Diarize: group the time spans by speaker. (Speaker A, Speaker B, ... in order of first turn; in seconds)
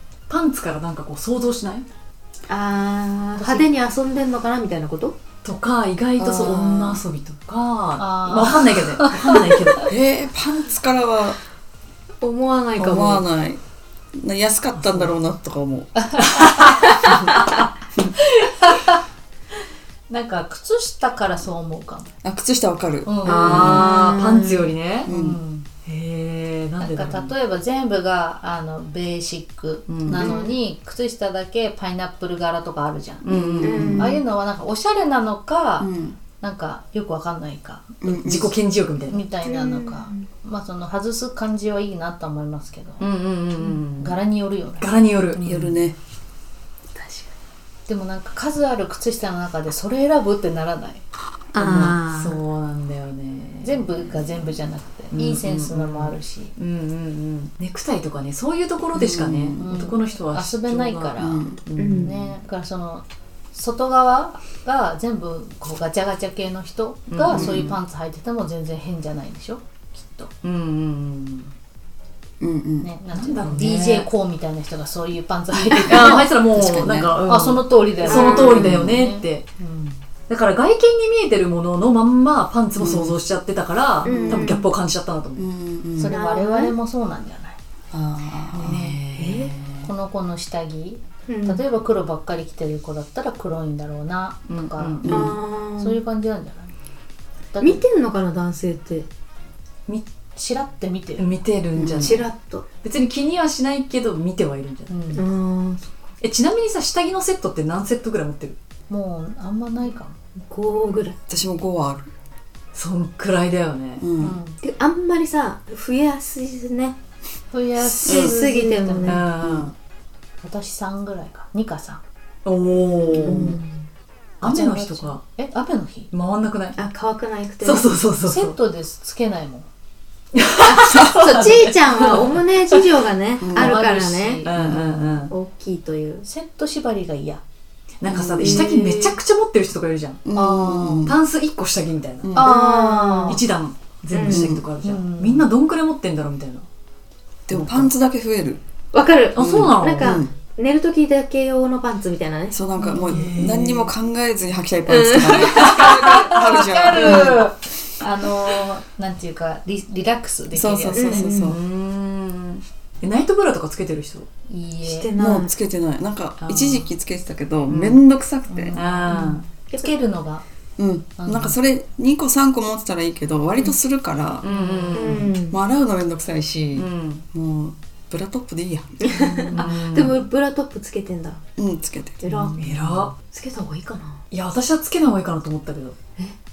Speaker A: 0.3-1.9, 5.4-9.9, 14.8-15.1, 16.3-17.1, 23.2-25.1, 25.9-27.3, 29.9-30.2, 33.2-34.0, 38.1-39.2, 43.0-44.2, 44.8-45.7, 51.6-54.3, 55.1-62.3, 67.1-67.6, 70.4-71.5, 73.1-74.1, 75.9-79.5, 80.3-85.5, 88.5-89.9, 94.5-95.1, 101.2-102.3, 102.8-105.2, 106.2-108.6, 112.7-114.1, 119.1-119.7, 122.4-123.6, 124.4-125.2, 126.1-126.8, 127.6-128.6, 130.3-132.2, 134.4-135.3, 138.0-140.2, 141.0-142.5, 143.3-146.7, 147.5-147.9, 149.3-150.2, 152.9-153.9, 161.4-164.3, 166.4-166.9, 167.7-168.0, 168.7-169.4, 174.4-175.3, 176.8-177.2, 179.5-180.2, 182.6-183.1, 184.3-186.0
Speaker B: 2.5-5.2, 12.2-13.2, 23.3-24.7, 30.2-30.5, 33.6-34.2, 39.4-40.3, 47.0-47.2, 51.5-52.4, 61.8-62.2, 78.1-78.7, 84.0-84.7, 86.1-86.7, 89.2-89.5, 91.3-91.6, 95.1-96.0, 97.6-99.1, 101.9-102.7, 105.1-105.9, 110.4-111.2, 114.6-117.0, 117.8-119.2, 123.2-123.8, 126.8-128.1, 130.6-134.6, 135.3-136.2, 138.4-139.1, 142.4-143.4, 144.1-144.5, 148.9-152.7, 154.9-156.2, 160.9-161.6, 164.8-165.5, 169.1-169.9, 174.9-175.6, 179.0-181.4, 182.2-182.6, 183.3-184.2
Speaker C: 3.4-3.7, 8.0-9.4, 16.0-17.1, 18.2-19.0, 20.1-22.1, 23.1-23.6, 25.1-25.7, 26.8-33.4, 34.0-38.2, 39.1-43.0, 44.0-45.6, 47.9-51.0, 53.6-56.5, 59.6-61.5, 62.0-70.3, 72.8-76.3, 77.2-80.0, 86.0-87.6, 89.7-96.7, 97.5-97.8, 100.3-101.4, 104.9-105.2, 108.9-110.2, 114.2-114.6, 117.5-119.2, 120.4-122.0, 124.4-126.1, 128.2-129.7, 133.5-135.3, 136.2-137.4, 140.3-141.1, 142.4-143.4, 144.8-145.5, 152.9-153.4, 156.1-161.5, 164.5-165.1, 168.5-170.4, 171.2-171.6, 174.5-175.1, 182.3-182.8
Speaker D: 6.2-7.0, 9.9-11.4, 12.8-13.6, 14.1-15.9, 22.2-23.9, 25.1-25.4, 33.3-34.1, 35.8-36.2, 38.0-38.5, 45.5-46.0, 51.5-52.0, 58.9-59.6, 61.2-61.6, 67.3-67.8, 72.4-72.9, 76.2-77.2, 78.5-79.0, 82.8-83.2, 84.1-84.4, 85.4-86.2, 87.9-88.8, 95.1-95.4, 101.8-102.2, 111.3-112.1, 114.0-114.4, 118.0-118.4, 119.4-119.7, 123.1-123.6, 133.4-133.8, 138.1-138.8, 140.2-141.2, 142.2-142.5, 144.2-144.7, 147.5-148.6, 149.4-150.3, 152.5-157.4, 160.5-161.6, 165.2-168.8, 170.8-174.5, 175.2-179.3, 181.6-182.2